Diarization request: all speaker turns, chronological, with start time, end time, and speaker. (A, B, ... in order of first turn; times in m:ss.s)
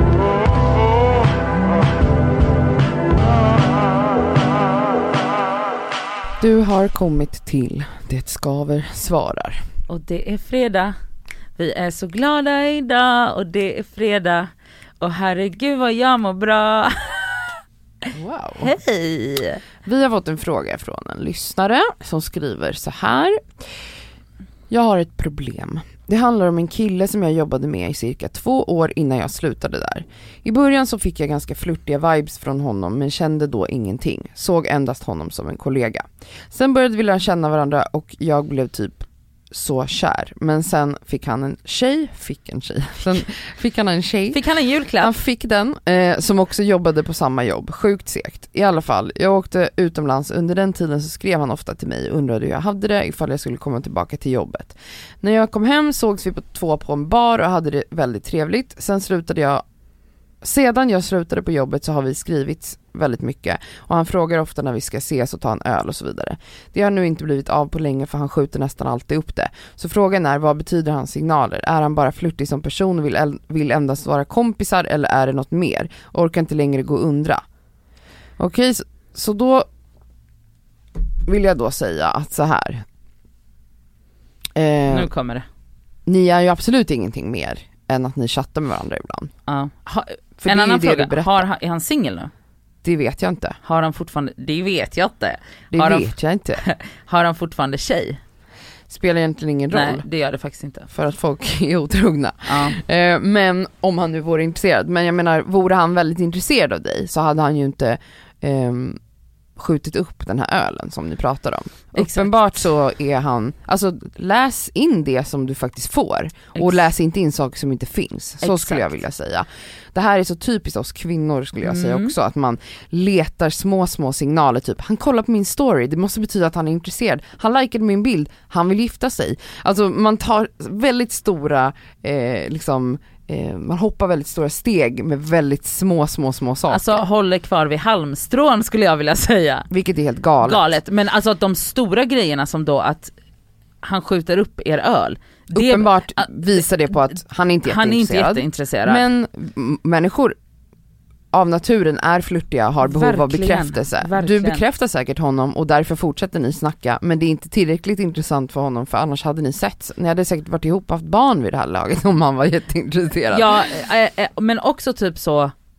0:06.4-0:09.6 A
0:09.9-0:11.0 B
0:11.6-0:17.6 B
0:18.1-0:18.8 A
0:18.6-0:19.6 B
0:19.8-0:23.4 A
0:24.7-0:44.4 A
0:44.3-0:45.1 B
0:45.0-0:59.6 A
1:00.4-1:17.4 A
1:18.4-1:19.7 A
1:21.3-1:22.8 A
1:24.6-1:25.1 A
1:24.9-1:25.5 B
1:26.1-1:29.3 A
1:29.5-1:32.3 B
1:30.4-1:31.4 A
1:32.8-1:33.6 A
1:33.6-1:38.2 B
1:35.7-1:36.6 A
1:38.9-1:40.1 A
1:39.7-1:40.9 B
1:40.9-1:49.0 A
1:42.4-1:42.8 B
1:49.6-2:17.0 A
1:52.0-1:52.5 B
1:56.6-1:56.8 B
1:58.4-1:58.9 B
2:01.6-2:02.1 B
2:16.7-2:19.7 B
2:19.7-2:20.7 A
2:20.4-2:23.1 B
2:23.8-2:29.0 B
2:25.5-2:30.3 A
2:31.3-2:43.7 A
2:32.8-2:34.6 B
2:43.3-2:45.5 B